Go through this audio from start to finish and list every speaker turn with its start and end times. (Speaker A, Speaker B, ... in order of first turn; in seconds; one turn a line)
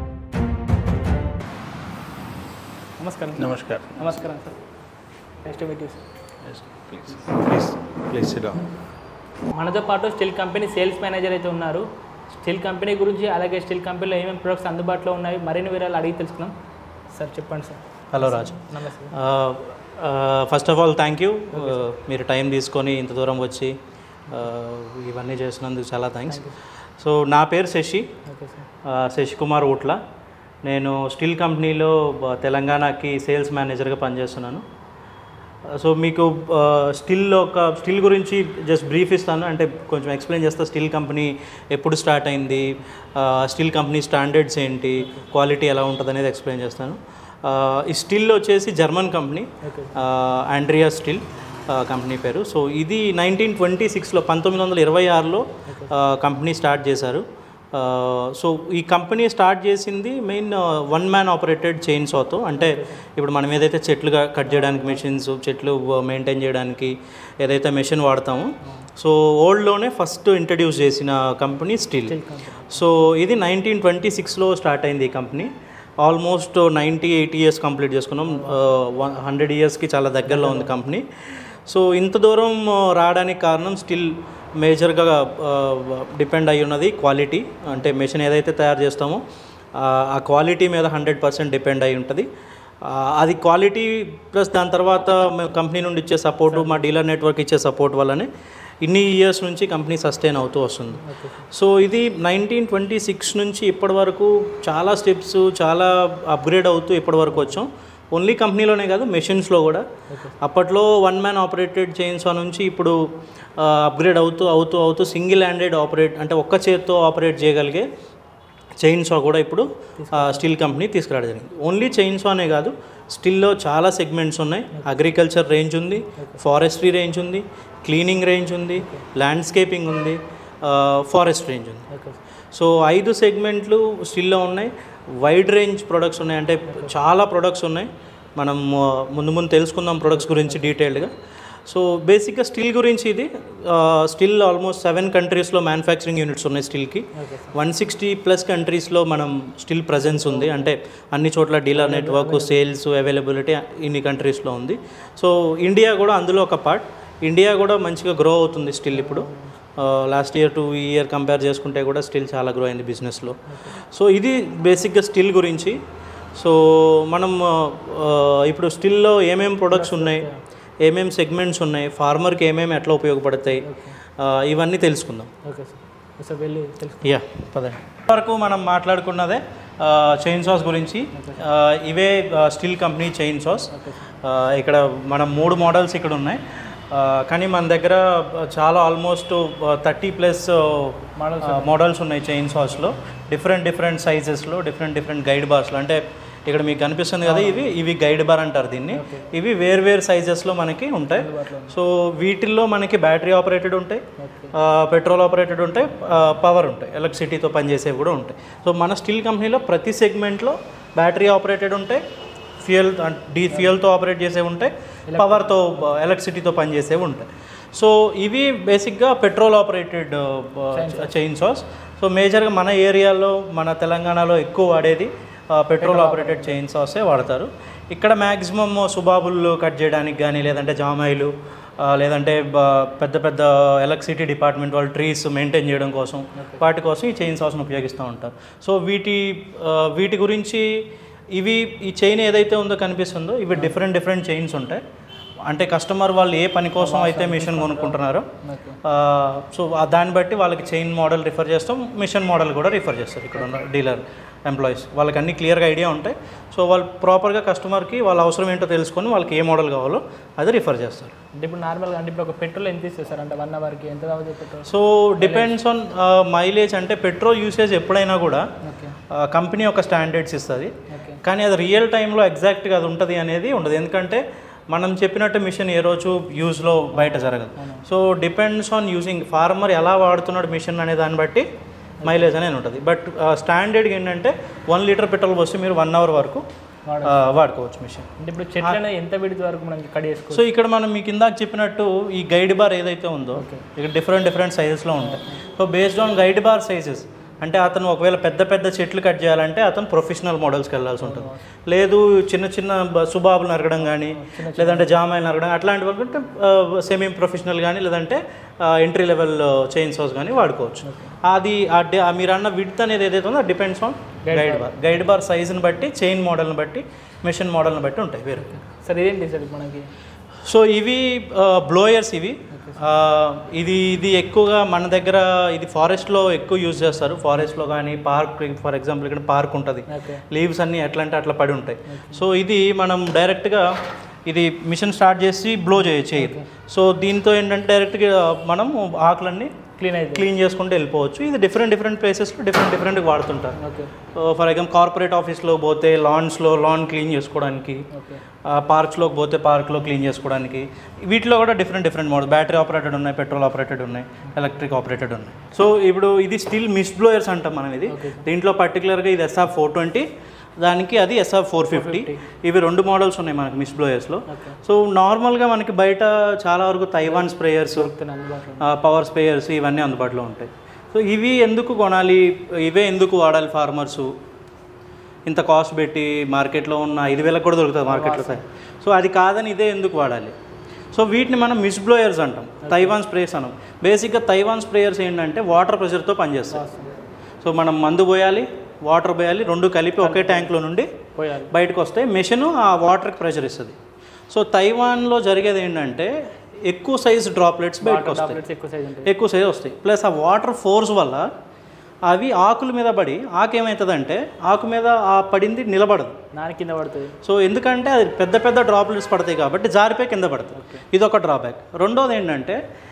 Speaker A: 3.0-4.5
Speaker B: 3.4-4.2
Speaker A: 5.4-6.0
Speaker B: 6.5-8.6
Speaker A: 9.5-11.8
Speaker A: 12.4-16.5
Speaker A: 17.1-19.1
Speaker C: 18.1-18.6
Speaker C: 19.1-23.8
Speaker A: 21.5-21.8
Speaker C: 24.3-26.4
Speaker A: 26.3-26.6
Speaker C: 27.0-28.1
Speaker A: 28.2-28.6
Speaker C: 28.8-30.0
Speaker C: 30.6-34.6
Speaker C: 35.7-72.2
Speaker A: 45.0-45.3
Speaker A: 49.6-49.9
Speaker A: 55.6-55.9
Speaker A: 62.5-63.0
Speaker A: 64.5-65.0
Speaker A: 68.6-68.9
Speaker A: 72.0-72.8
Speaker C: 72.7-89.2
Speaker A: 78.3-79.0
Speaker A: 80.2-80.8
Speaker A: 87.7-88.0
Speaker C: 89.7-92.3
Speaker C: 92.8-98.3
Speaker A: 96.5-96.9
Speaker C: 98.8-109.8
Speaker A: 100.9-101.5
Speaker A: 107.3-107.6
Speaker A: 110.1-110.4
Speaker C: 110.4-113.0
Speaker C: 113.6-117.9
Speaker C: 118.8-131.9
Speaker A: 120.0-120.5
Speaker A: 128.8-129.1
Speaker A: 131.9-132.2
Speaker C: 132.5-141.1
Speaker A: 136.7-136.9
Speaker A: 140.2-140.7
Speaker C: 141.7-165.8
Speaker A: 147.1-147.5
Speaker A: 150.1-150.7
Speaker A: 151.7-152.6
Speaker A: 158.9-159.6
Speaker A: 163.5-163.7
Speaker C: 166.3-170.3
Speaker A: 169.7-170.4
Speaker C: 170.8-175.3
Speaker A: 173.6-174.0
Speaker A: 175.4-177.1
Speaker C: 177.0-183.7
Speaker A: 181.1-181.4
Speaker A: 183.7-184.1
Speaker C: 184.2-212.0
Speaker A: 191.2-191.7
Speaker A: 197.2-197.7
Speaker A: 198.9-199.3
Speaker A: 201.1-201.7
Speaker A: 204.2-204.5
Speaker C: 212.6-244.8
Speaker A: 215.1-215.9
Speaker A: 220.7-221.1
Speaker A: 225.8-226.6
Speaker A: 236.3-236.6
Speaker C: 245.4-248.3
Speaker A: 246.8-248.8
Speaker C: 248.8-261.1
Speaker A: 261.3-265.5
Speaker C: 264.6-268.5
Speaker A: 268.6-269.0
Speaker C: 269.1-281.5
Speaker A: 270.9-271.2
Speaker A: 276.9-277.8
Speaker A: 282.0-282.3
Speaker C: 282.0-286.4
Speaker A: 286.9-287.2
Speaker C: 287.0-288.1
Speaker A: 288.2-290.5
Speaker C: 290.3-318.5
Speaker A: 293.3-293.6
Speaker A: 295.0-295.4
Speaker A: 301.0-301.4
Speaker A: 303.9-304.9
Speaker A: 310.8-311.1
Speaker A: 314.3-314.7
Speaker A: 318.4-319.9
Speaker C: 320.4-333.7
Speaker A: 322.5-322.8
Speaker A: 329.9-330.2
Speaker A: 331.9-332.2
Speaker C: 334.3-339.5
Speaker A: 336.1-336.5
Speaker A: 339.8-340.3
Speaker C: 340.1-343.6
Speaker A: 343.6-343.9
Speaker C: 344.1-347.8
Speaker A: 347.9-348.2
Speaker C: 348.4-360.1
Speaker A: 357.9-358.2
Speaker C: 360.6-367.9
Speaker A: 361.7-362.2
Speaker A: 364.3-364.6
Speaker A: 367.0-368.7
Speaker C: 368.6-374.1
Speaker C: 375.2-380.4
Speaker A: 377.9-378.4
Speaker C: 380.9-386.6
Speaker A: 382.6-383.0
Speaker A: 386.5-386.9
Speaker C: 387.4-390.9
Speaker A: 390.0-390.5
Speaker A: 391.1-391.5
Speaker C: 391.5-393.8
Speaker C: 394.3-398.4
Speaker A: 397.8-399.1
Speaker C: 399.0-401.3
Speaker C: 402.1-406.2
Speaker A: 406.3-407.2
Speaker C: 407.2-412.6
Speaker A: 410.5-410.8